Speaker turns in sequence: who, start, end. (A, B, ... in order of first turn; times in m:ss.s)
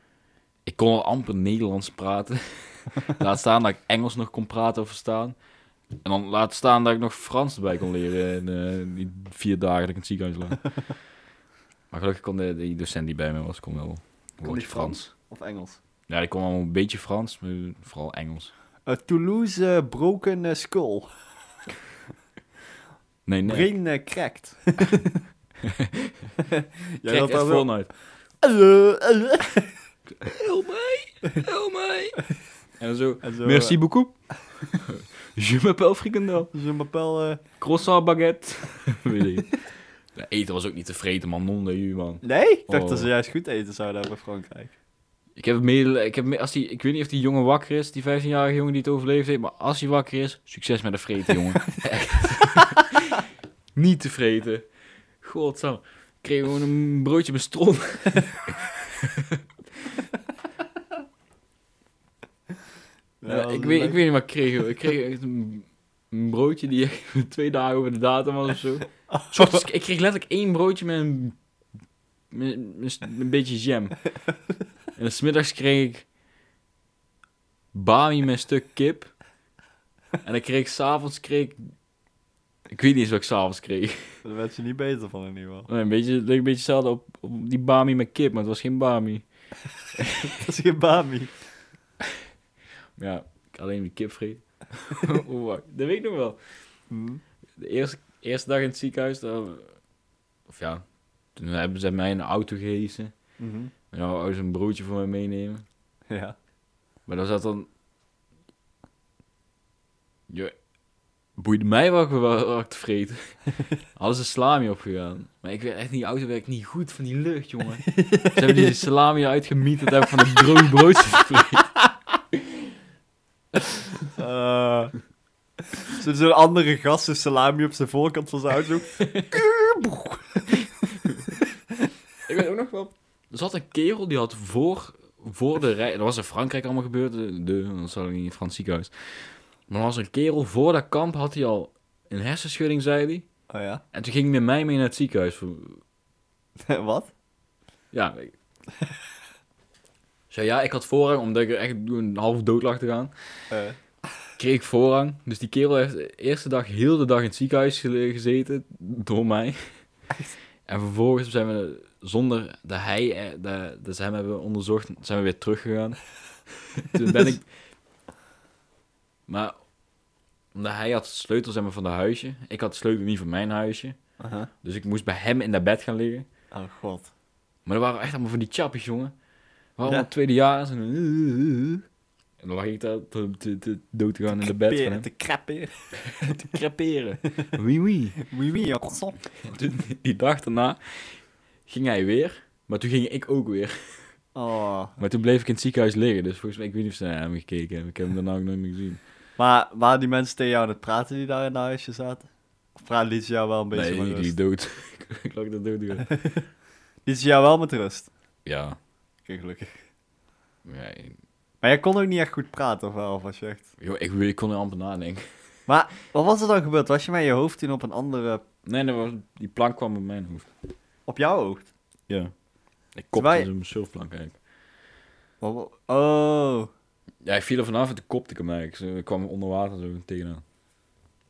0:00.6-0:05.4 A
0:06.0-0:10.7 A
0:11.9-0:15.1 A
0:14.4-0:15.8 B
0:16.1-0:18.5 A
0:18.9-0:21.1 B
0:23.3-0:23.7 A
0:23.4-0:25.2 B
0:25.6-0:26.1 A
0:26.5-0:29.7 B
0:27.1-0:27.9 A
0:30.2-0:36.5 A
0:33.2-0:33.8 B
0:36.5-0:37.4 B
0:37.6-0:43.1 A
0:42.2-0:44.7 B
0:45.4-0:53.2 A
0:53.8-0:54.7 A
0:55.2-1:00.0 A
1:03.2-1:04.0 B
1:03.3-1:11.4 A
1:09.1-1:09.6 B
1:12.3-1:14.1 A
1:15.0-1:16.1 A
1:17.7-1:19.1 A
1:20.2-1:21.6 A
1:22.7-1:24.2 A
1:24.2-1:25.7 B
1:25.7-1:29.2 A
1:30.0-1:30.3 A
1:30.2-1:31.4 B
1:33.0-1:36.4 A
1:36.9-1:37.2 B
1:37.6-1:39.8 A
1:40.5-1:43.1 A
1:43.4-1:43.7 B
1:43.9-1:45.6 A
1:46.1-1:46.4 B
1:47.1-1:47.7 A
1:51.4-2:01.8 A
1:57.9-1:58.8 B
2:04.2-2:05.0 B
2:06.0-2:10.5 B
2:10.5-2:11.4 A
2:12.3-2:23.3 A
2:23.5-2:23.8 B
2:23.9-2:25.8 A
2:26.6-2:27.1 B
2:27.9-2:28.4 A
2:30.3-2:33.5 A
2:33.5-2:33.8 B
2:34.4-2:39.8 A
2:40.7-2:46.0 A
2:46.8-2:47.5 A
2:47.0-2:47.3 B
2:49.3-2:49.6 A
2:50.5-2:54.0 A
2:54.2-2:54.5 B
2:54.6-2:56.3 A
2:56.5-2:57.1 B
2:57.7-2:59.1 A
2:59.8-3:01.8 A
3:02.4-3:05.1 A
3:04.3-3:06.4 B
3:06.1-3:08.2 A
3:08.2-3:09.3 B
3:09.4-3:14.1 A
3:14.4-3:15.0 B
3:15.0-3:19.0 A
3:19.4-3:24.3 B
3:23.7-3:26.1 A
3:26.1-3:26.4 B
3:27.1-3:28.1 B
3:28.4-3:28.8 A
3:29.3-3:29.8 B
3:30.6-3:31.2 A
3:31.6-3:33.7 B
3:33.8-3:35.2 A
3:35.7-3:38.4 B
3:38.6-3:40.5 A
3:41.1-3:41.7 B
3:43.0-3:44.4 A
3:43.1-3:43.5 B
3:45.4-3:46.7 B
3:47.2-3:50.4 A